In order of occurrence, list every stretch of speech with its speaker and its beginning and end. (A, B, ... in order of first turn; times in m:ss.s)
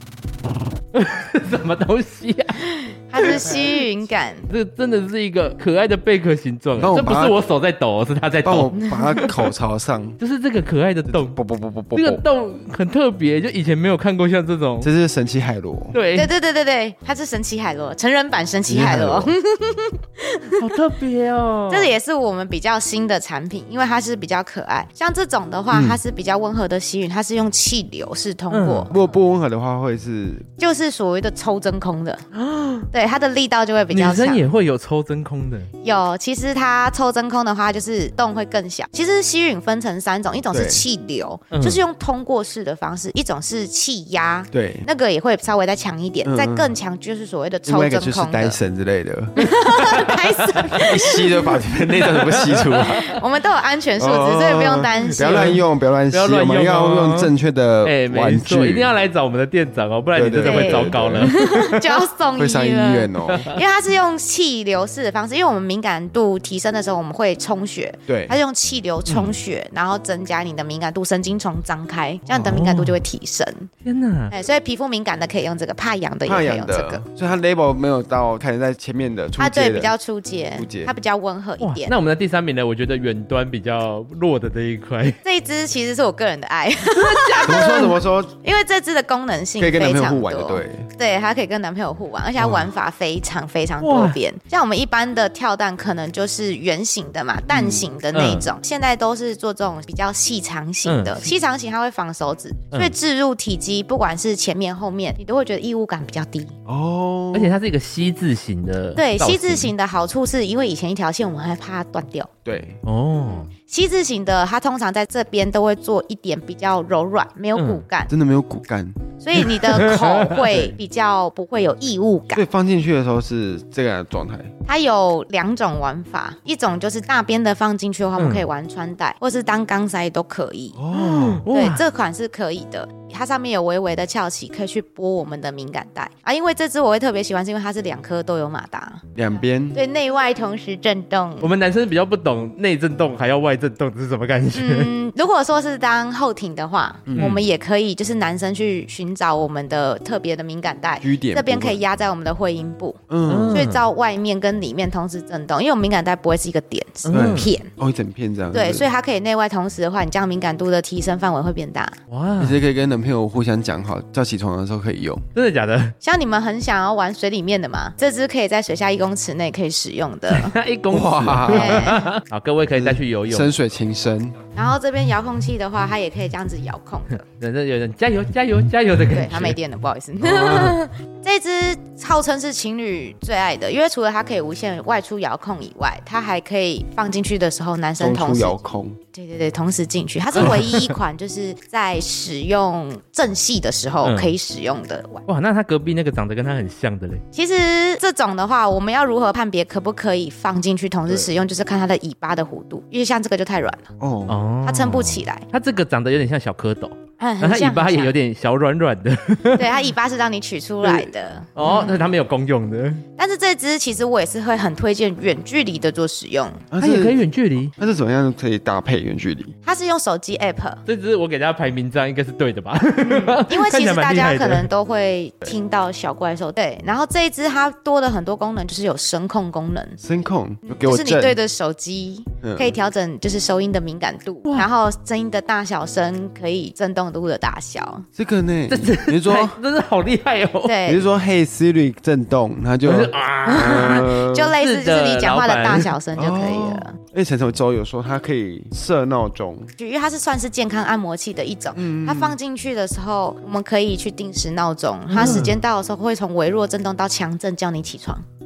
0:00.9-0:02.6 A
0:03.1-0:04.5 B
0:03.2-0:03.8 C
0:04.5-0:09.2 A
0:06.8-0:07.3 C
0:08.4-0:10.2 C
0:08.8-0:09.3 B
0:10.2-0:11.4 A
0:11.1-0:12.2 C
0:11.9-0:14.9 A
0:14.8-0:16.0 C
0:15.9-0:16.3 A
0:16.2-0:20.6 B
0:18.7-0:19.3 C
0:20.6-0:21.9 A
0:21.7-0:28.9 B
0:25.7-0:26.0 C
0:28.5-0:28.9 A
0:28.9-0:30.5 C
0:30.6-0:32.2 B
0:32.3-0:32.9 A
0:32.9-0:34.4 B
0:33.9-0:35.7 A
0:35.8-0:48.6 B
0:40.5-0:40.9 C
0:41.5-0:41.8 A
0:44.5-0:44.9 C
0:46.2-0:46.7 C
0:47.6-0:49.3 C
0:49.4-0:51.5 B
0:49.4-0:50.9 A
0:50.7-0:53.0 C
0:52.0-0:53.1 A
0:52.8-0:55.6 B
0:54.0-0:58.9 C
0:55.2-0:55.6 A
0:56.1-0:57.3 A
0:57.8-1:01.9 A
1:00.1-1:01.3 C
1:00.4-1:13.7 B
1:02.3-1:03.5 C
1:03.3-1:03.6 A
1:08.1-1:08.4 C
1:09.1-1:09.3 A
1:12.3-1:13.0 A
1:13.8-1:14.3 A
1:14.3-1:17.0 B
1:16.2-1:19.9 C
1:19.4-1:21.9 B
1:20.6-1:20.9 C
1:21.6-1:25.2 A
1:25.2-1:46.5 B
1:26.9-1:27.9 A
1:27.4-1:28.3 C
1:29.6-1:30.9 C
1:33.8-1:34.2 A
1:37.5-1:37.8 C
1:38.1-1:38.5 A
1:40.8-1:41.2 A
1:46.7-1:47.5 C
1:47.3-1:49.7 A
1:49.0-1:52.3 B
1:52.4-1:52.8 C
1:52.8-1:53.5 A
1:53.5-1:58.1 B
1:57.6-1:57.8 A
1:58.1-1:59.0 C
1:59.2-2:02.4 B
1:59.4-2:00.5 A
2:02.3-2:04.5 C
2:04.6-2:10.8 B
2:08.2-2:08.4 A
2:10.8-2:11.4 C
2:10.9-2:11.8 A
2:11.5-2:19.0 B
2:19.1-2:19.8 C
2:19.7-2:21.5 B
2:21.4-2:24.9 A
2:24.5-2:37.7 B
2:27.1-2:27.4 C
2:27.2-2:27.4 A
2:31.0-2:31.8 C
2:33.1-2:33.7 C
2:33.3-2:33.8 A
2:37.0-2:37.5 A
2:37.1-2:38.9 C
2:38.5-2:42.0 B
2:42.1-2:42.6 A
2:42.4-2:45.2 C
2:45.3-2:45.9 A
2:46.0-2:50.5 B
2:50.3-2:53.5 A
2:50.9-2:52.0 C
2:51.5-2:52.1 B
2:52.7-2:54.4 C
2:54.5-2:57.2 B
2:57.1-2:59.6 A
2:59.1-3:08.6 B
3:00.2-3:00.8 C
3:08.0-3:09.0 C
3:09.1-3:15.2 B
3:10.4-3:10.9 A
3:14.0-3:14.3 A
3:15.2-3:17.2 A
3:17.3-3:23.9 B
3:24.0-3:24.4 C
3:24.3-3:29.7 A
3:24.6-3:25.4 B
3:27.2-3:28.1 B
3:29.6-3:32.0 B
3:31.6-3:33.0 A
3:33.2-3:36.6 B
3:36.7-3:37.2 C
3:36.8-3:37.7 A
3:37.8-3:39.5 C
3:39.6-3:40.8 B
3:40.9-3:44.7 A
3:43.0-3:50.0 B
3:50.0-3:51.4 C
3:50.6-3:58.1 B
3:52.4-3:52.7 C
3:58.2-3:59.6 C
3:58.7-4:00.8 A
4:00.6-4:01.1 B
4:00.9-4:04.6 C
4:02.8-4:05.9 A
4:03.4-4:07.0 B
4:06.1-4:09.7 C
4:09.8-4:18.2 B
4:11.7-4:12.4 C
4:15.1-4:15.6 A
4:15.1-4:15.6 C